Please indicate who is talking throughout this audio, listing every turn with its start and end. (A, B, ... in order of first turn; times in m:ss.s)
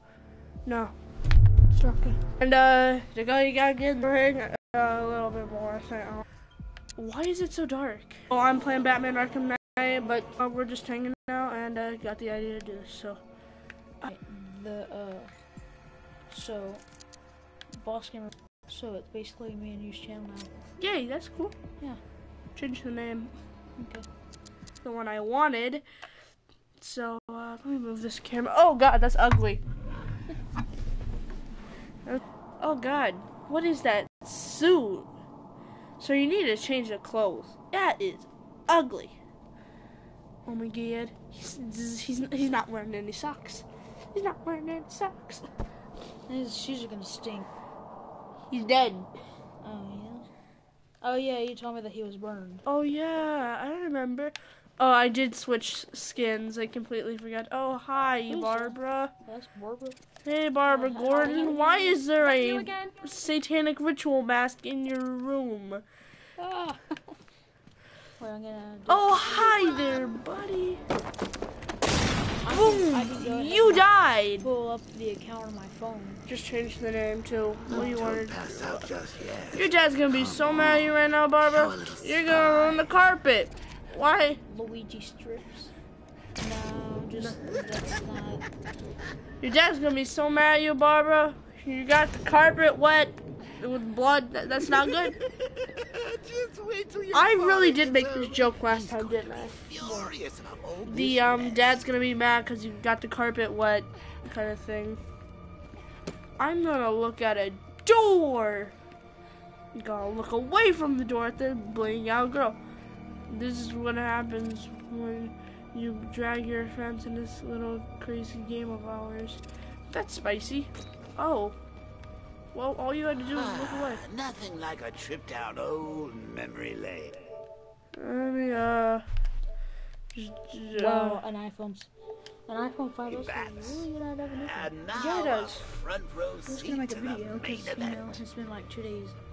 0:00.6-0:00.9 A
0:01.7-0:06.2 A
0:07.0-0:13.2 A
0:14.1-0:15.3 B
0:16.3-0:16.8 B
0:17.8-0:20.5 B
0:20.8-0:21.6 A
0:22.6-0:23.3 A
0:23.8-0:24.1 B
0:24.8-0:25.8 A
0:26.8-0:29.6 A
0:32.0-0:35.1 A
0:36.0-0:39.2 A
0:40.4-0:45.5 A
0:46.3-0:47.5 B
0:48.5-0:49.1 A
0:49.6-0:50.3 B
0:51.0-0:52.6 B
0:52.6-0:59.1 A
0:58.3-1:00.0 B
1:00.2-1:05.8 A
1:00.6-1:03.1 B
1:06.4-1:07.2 B
1:08.2-1:10.2 B
1:08.9-1:10.8 A
1:12.4-1:13.9 B
1:12.5-1:14.5 A
1:14.4-1:16.2 B
1:16.3-1:18.9 A
1:17.7-1:23.0 C
1:17.7-1:18.0 B
1:19.5-1:24.4 A
1:24.4-1:25.7 B
1:26.4-1:28.4 B
1:29.4-1:35.1 A
1:34.7-1:41.9 C
1:37.1-1:40.1 A
1:40.8-1:45.0 A
1:46.4-1:48.7 A
1:49.7-1:52.6 A
1:53.3-2:01.6 A
2:02.5-2:04.0 A
2:03.3-2:07.2 C
2:08.0-2:09.0 A
2:10.1-2:11.2 A
2:10.7-2:11.9 B
2:12.5-2:14.8 B
2:13.0-2:18.2 C
2:14.9-2:15.6 A
2:16.4-2:19.2 B